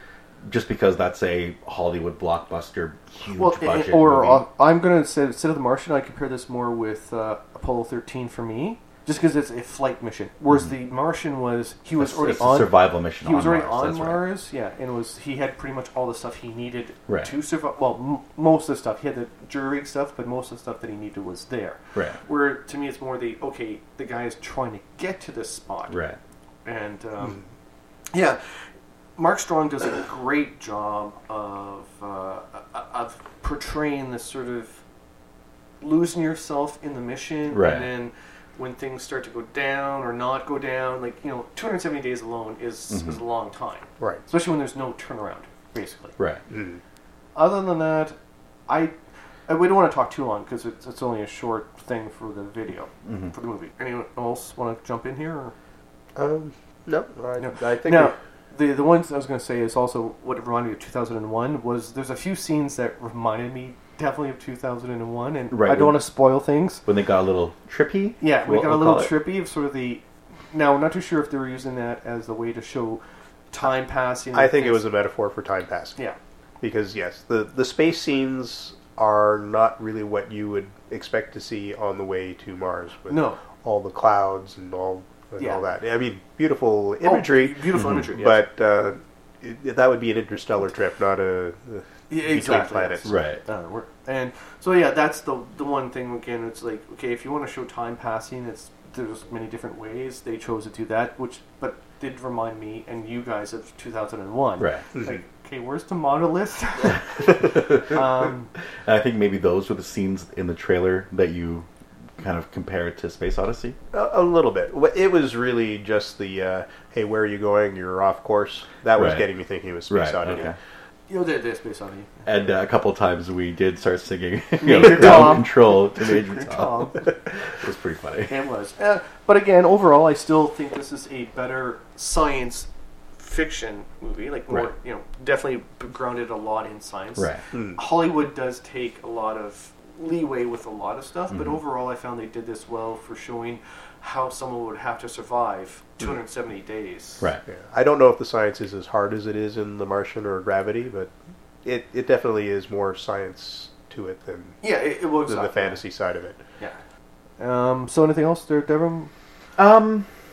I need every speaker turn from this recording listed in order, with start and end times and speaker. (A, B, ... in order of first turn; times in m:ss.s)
0:00.4-0:04.4 A
0:03.4-0:26.0 B
0:12.0-0:14.2 A
0:25.9-0:26.2 A
0:26.6-0:27.4 B
0:28.1-0:28.4 B
0:29.2-0:34.8 B
0:35.8-0:46.1 B
0:37.5-0:37.9 A
0:42.9-0:43.2 A
0:46.5-0:46.8 C
0:47.3-0:48.2 B
0:48.7-0:48.9 B
0:49.5-0:55.5 B
0:53.0-0:53.3 A
0:56.2-0:58.2 C
0:57.4-1:06.8 B
1:05.5-1:06.0 A
1:06.8-1:09.2 A
1:08.2-1:14.9 B
1:14.3-1:16.0 C
1:16.6-1:33.1 C
1:23.1-1:23.4 B
1:25.4-1:25.7 B
1:27.0-1:28.4 B
1:27.8-1:28.1 A
1:32.1-1:48.5 B
1:33.0-1:33.4 A
1:44.6-1:44.8 A
1:47.1-1:48.3 A
1:48.8-1:51.6 A
1:52.2-1:53.8 A
1:53.9-2:00.5 C
1:58.9-1:59.3 A
1:59.9-2:00.6 A
2:01.1-2:02.3 B
2:02.2-2:08.4 A
2:04.6-2:07.1 B
2:08.3-2:27.3 B
2:17.5-2:17.8 C
2:21.3-2:21.6 A
2:27.5-2:31.1 C
2:31.6-2:34.6 C
2:34.6-2:35.8 B
2:35.3-2:36.4 C
2:37.4-2:39.1 B
2:39.6-2:40.1 A